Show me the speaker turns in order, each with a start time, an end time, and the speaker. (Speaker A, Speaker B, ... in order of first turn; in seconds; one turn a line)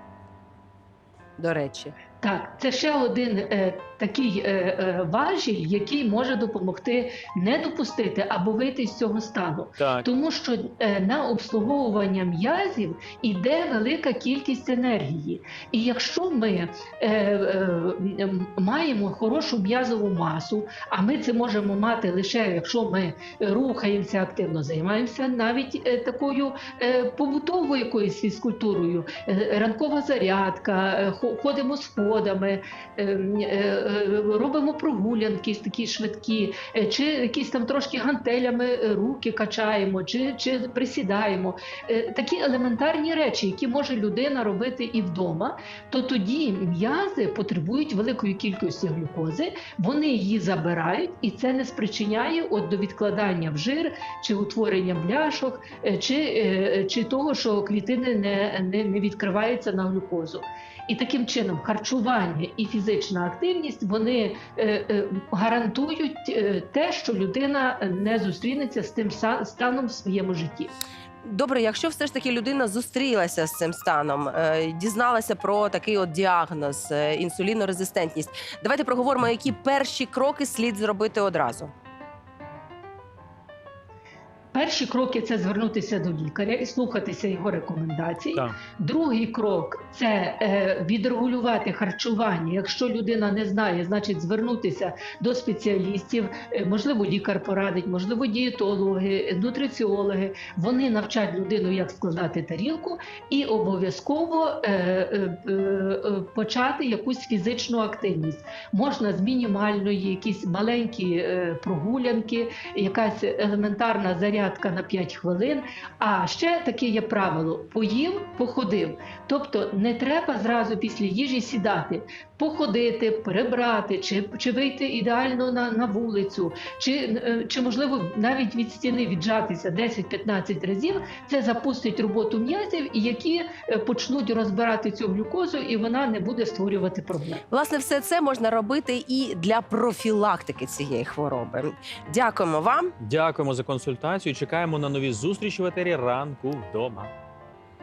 Speaker A: 1.4-1.9
Speaker B: 2.2-70.7
Speaker C: 9.8-10.1
Speaker A: 71.2-81.7
Speaker B: 84.5-137.4
Speaker A: 137.5-142.9
Speaker C: 143.0-147.1